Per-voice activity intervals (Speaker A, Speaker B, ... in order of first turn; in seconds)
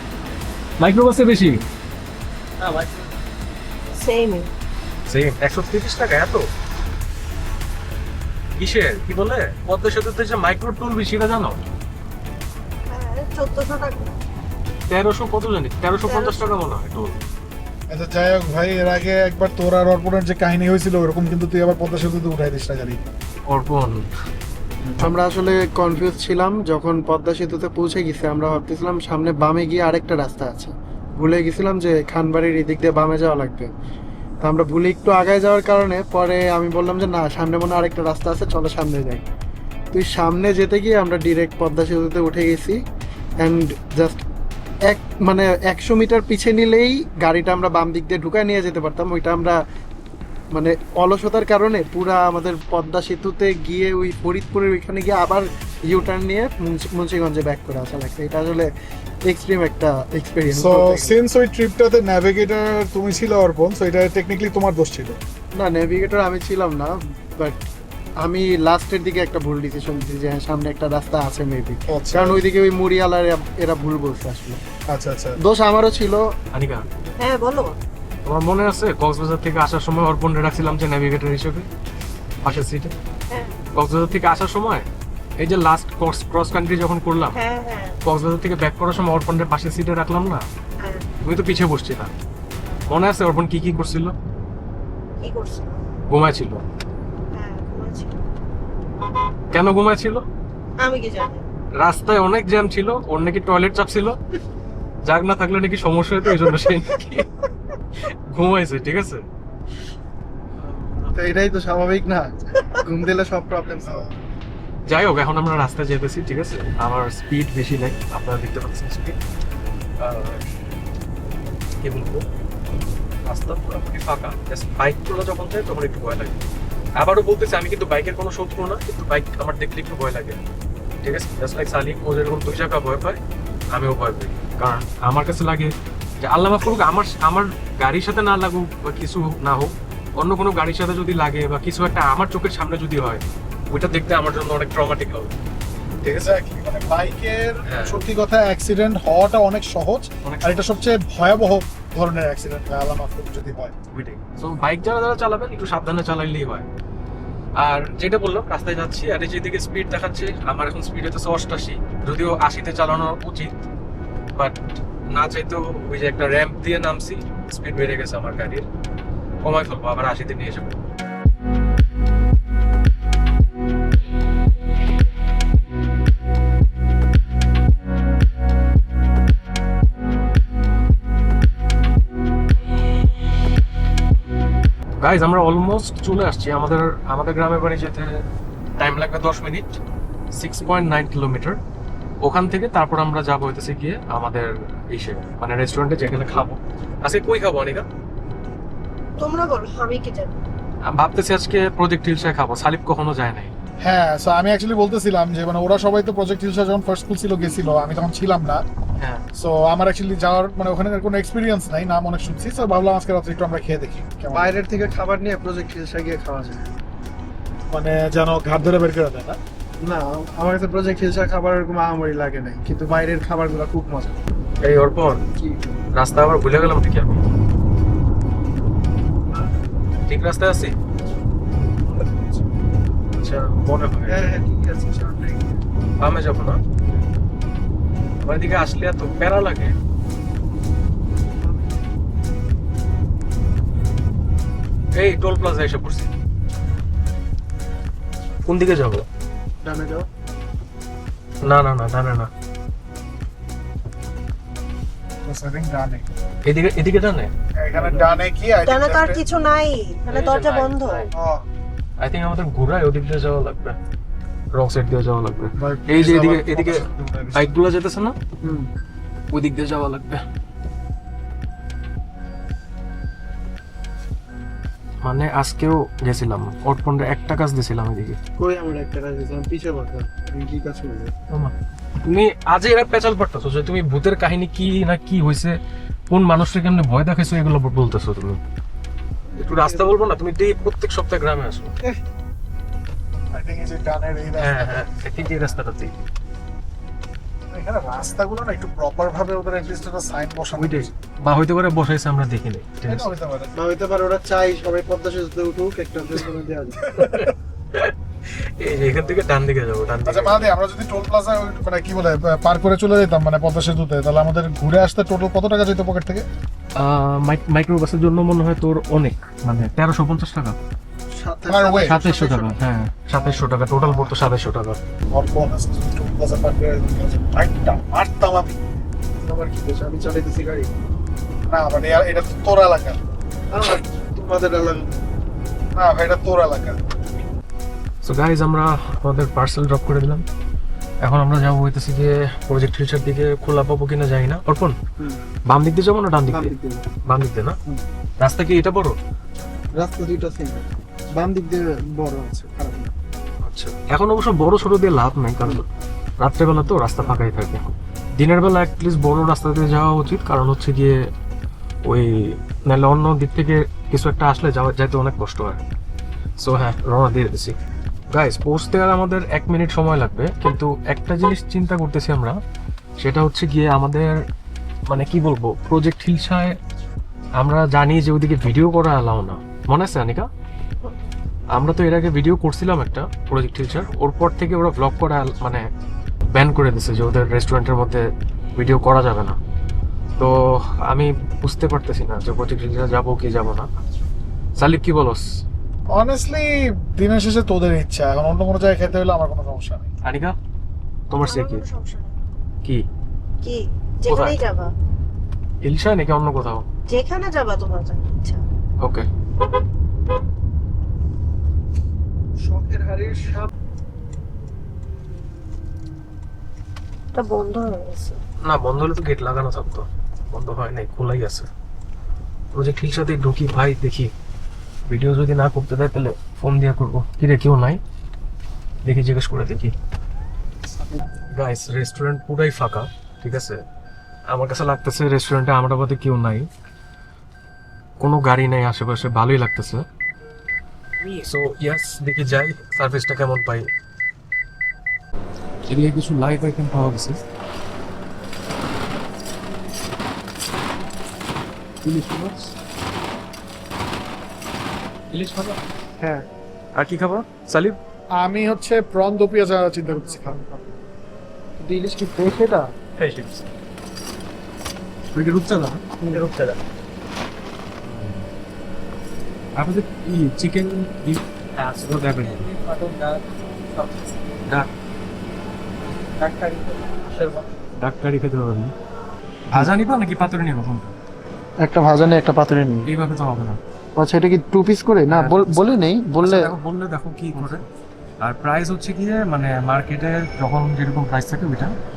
Speaker A: 0.8-1.6, 5.1-6.5, 8.6-11.7, 14.9-17.2, 23.5-24.1, 76.5-76.8, 78.2-81.7, 82.4-82.9, 83.8-84.9, 85.4-87.4, 88.0-90.5, 91.2-92.1, 92.9-94.2, 96.1-96.6, 99.5-100.2, 101.8-104.2, 105.1-107.3, 108.3-109.2, 110.6-111.2, 114.9-119.2, 120.0-120.5, 121.8-122.3, 123.2-126.4, 127.0-130.4, 131.0-133.2, 133.7-145.3, 147.7-148.0, 150.2-150.6, 153.9-156.7, 157.6-163.6, 165.1-168.7, 169.4-170.8, 185.0-188.2, 188.8-189.8, 190.3-191.6, 192.2-197.9, 200.9-203.5, 224.6-225.2, 225.9-227.2, 230.1-230.8, 233.2-234.4, 236.0-236.6, 238.2-239.8, 244.9-246.1, 248.5-249.1, 251.4-252.3, 256.4-257.3, 260.1-261.1, 262.0-263.8, 264.5-268.2, 269.3-270.2, 275.0-278.2, 281.3-285.6, 286.1-288.4, 289.5-291.7, 294.4-296.0, 300.6-303.1, 307.0-310.5, 316.8-320.6, 321.9-324.8, 338.0-340.2, 341.0-344.8, 345.5-347.6, 348.2-349.0, 353.4-355.7, 356.2-361.1, 361.9-365.6, 366.4-367.6, 368.1-372.4, 373.0-374.2, 374.9-376.6, 377.4-380.3, 381.5-385.7, 386.3-389.4, 390.2-393.7, 394.6-395.3, 400.0-400.4, 401.1-401.6, 404.1-404.4, 405.6-406.6, 418.4-421.5, 422.5-424.1, 424.9-427.8, 428.9-429.7, 431.3-433.6, 434.3-436.5, 438.0-439.9, 441.0-443.7, 445.7-447.2, 451.8-452.5, 455.1-455.6, 456.8-457.8, 463.0-463.4, 465.1-466.1, 467.8-468.3, 469.6-472.5, 477.8-478.7, 479.5-480.9, 482.9-483.6, 485.1-487.6, 488.2-491.8
Speaker B: 2.6-3.1, 25.0-33.7, 34.4-39.2, 39.9-42.8, 43.4-44.2, 44.9-49.6, 50.5-58.7, 59.2-61.2, 65.5-67.6, 68.2-74.6, 75.4-76.3, 111.1-114.1, 214.3-216.7, 219.8-224.2, 225.3-225.8, 229.2-229.6, 231.9-232.4, 234.1-235.6, 241.4-241.9, 249.6-250.1, 257.7-258.2, 268.4-268.7, 278.4-281.1, 289.3-289.9, 303.6-307.0, 321.1-322.6, 323.2-323.5, 329.2-330.7, 333.5-335.0, 346.3-346.9, 349.8-352.9, 412.4-413.5, 456.0-456.2, 460.0-460.8, 461.6-462.7, 466.0-466.3, 476.2-477.4, 481.6-482.9, 484.0-486.6
Speaker C: 3.9-4.5, 12.9-14.2, 16.0-16.5, 77.2-77.8, 83.3-83.6, 87.3-88.0, 90.8-91.1, 95.2-95.8, 97.3-98.2, 100.8-101.4, 199.2-200.4, 258.6-261.0, 401.2-402.1, 403.4-404.7, 406.9-408.4, 417.1-418.2
Speaker D: 17.9-23.0, 60.5-65.2, 71.9-72.4, 74.9-75.4, 113.8-114.2, 146.0-153.8, 203.8-208.7, 209.3-214.6, 217.7-219.4, 255.2-256.1, 257.6-259.2, 261.2-261.4, 265.6-267.6, 293.3-294.9, 297.5-300.9, 302.9-303.5, 306.9-307.3, 310.1-316.2, 321.5-322.0, 323.8-324.1, 325.1-328.6, 331.5-333.0, 335.8-336.8, 395.9-399.9, 458.2-460.4